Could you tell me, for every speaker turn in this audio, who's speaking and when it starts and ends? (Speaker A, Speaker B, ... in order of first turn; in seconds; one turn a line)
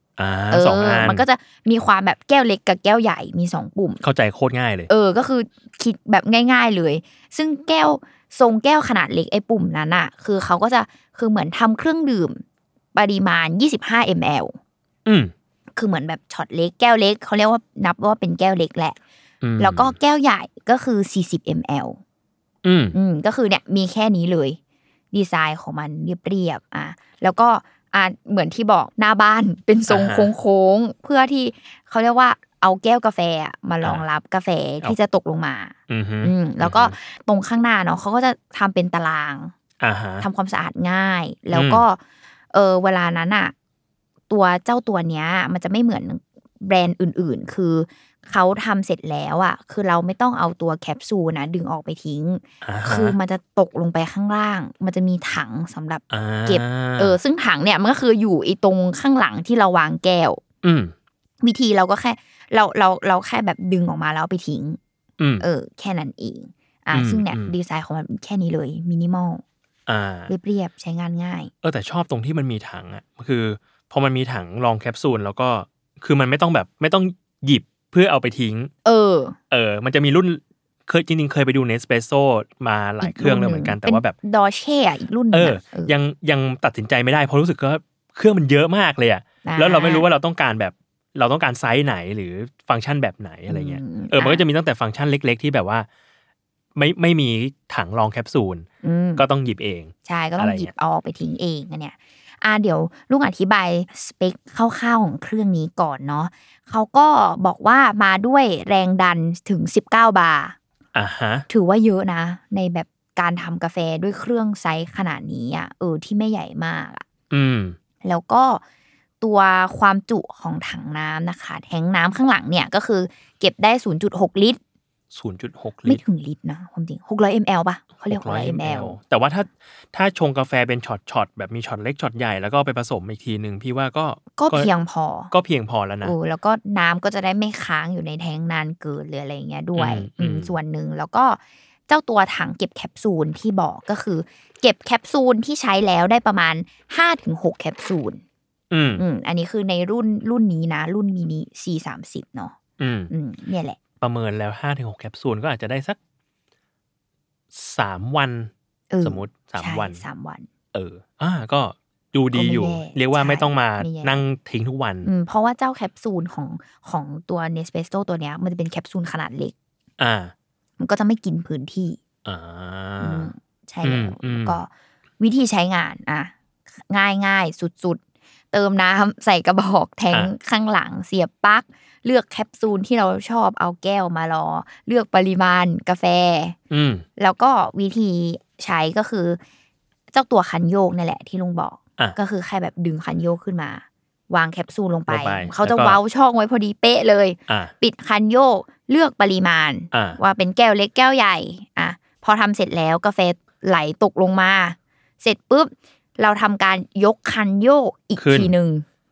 Speaker A: 0.2-1.3
Speaker B: 0.5-4.0
Speaker A: 4.0-4.9
Speaker B: 4.9-12.4
Speaker B: 12.9-14.6
Speaker A: 15.1-15.3
Speaker B: 15.8-19.0
Speaker A: 19.4-19.9
Speaker B: 19.6-22.0
Speaker A: 22.6-23.0
Speaker B: 22.9-24.6
Speaker B: 25.1-39.5
Speaker A: 29.9-30.3
Speaker A: 35.9-36.9
Speaker A: 39.8-40.3
Speaker B: 40.2-42.0
Speaker A: 41.5-41.8
Speaker B: 42.5-43.5
Speaker B: 44.3-60.4
Speaker A: 52.6-53.2
Speaker A: 56.1-57.2
Speaker A: 60.6-60.9
Speaker B: 61.4-64.8
Speaker A: 65.2-65.5
Speaker B: 65.4-69.4
Speaker A: 66.9-67.5
Speaker A: 69.9-70.3
Speaker B: 70.3-71.5
Speaker A: 71.6-78.7
Speaker B: 78.8-79.4
Speaker A: 79.5-84.2
Speaker B: 83.0-86.0
Speaker A: 85.3-95.9
Speaker B: 89.5-90.1
Speaker B: 93.5-94.4
Speaker A: 96.8-98.7
Speaker B: 98.8-99.2
Speaker A: 99.2-100.7
Speaker B: 100.1-110.6
Speaker A: 110.9-111.5
Speaker B: 111.5-117.1
Speaker A: 117.3-117.8
Speaker B: 118.0-118.6
Speaker B: 119.2-124.6
Speaker A: 125.1-126.0
Speaker B: 125.8-129.0
Speaker A: 128.0-134.7
Speaker B: 134.4-135.3
Speaker A: 135.3-136.2
Speaker B: 136.0-148.2
Speaker A: 139.8-140.5
Speaker A: 148.7-149.0
Speaker B: 149.0-152.6
Speaker A: 152.8-153.1
Speaker B: 153.1-153.8
Speaker A: 154.0-156.0
Speaker A: 157.5-158.5
Speaker B: 158.9-160.5
Speaker A: 159.0-160.0
Speaker A: 160.7-165.1
Speaker B: 162.3-164.2
Speaker B: 165.0-169.5
Speaker A: 170.0-170.3
Speaker B: 170.8-172.0
Speaker A: 172.2-173.3
Speaker B: 173.0-174.7
Speaker A: 173.8-174.6
Speaker B: 175.2-176.3
Speaker B: 176.9-178.0
Speaker B: 178.5-186.6
Speaker A: 186.7-187.1
Speaker B: 187.2-189.4
Speaker B: 190.1-208.8
Speaker A: 195.1-196.0
Speaker A: 197.5-197.7
Speaker A: 199.9-200.2
Speaker A: 208.2-208.5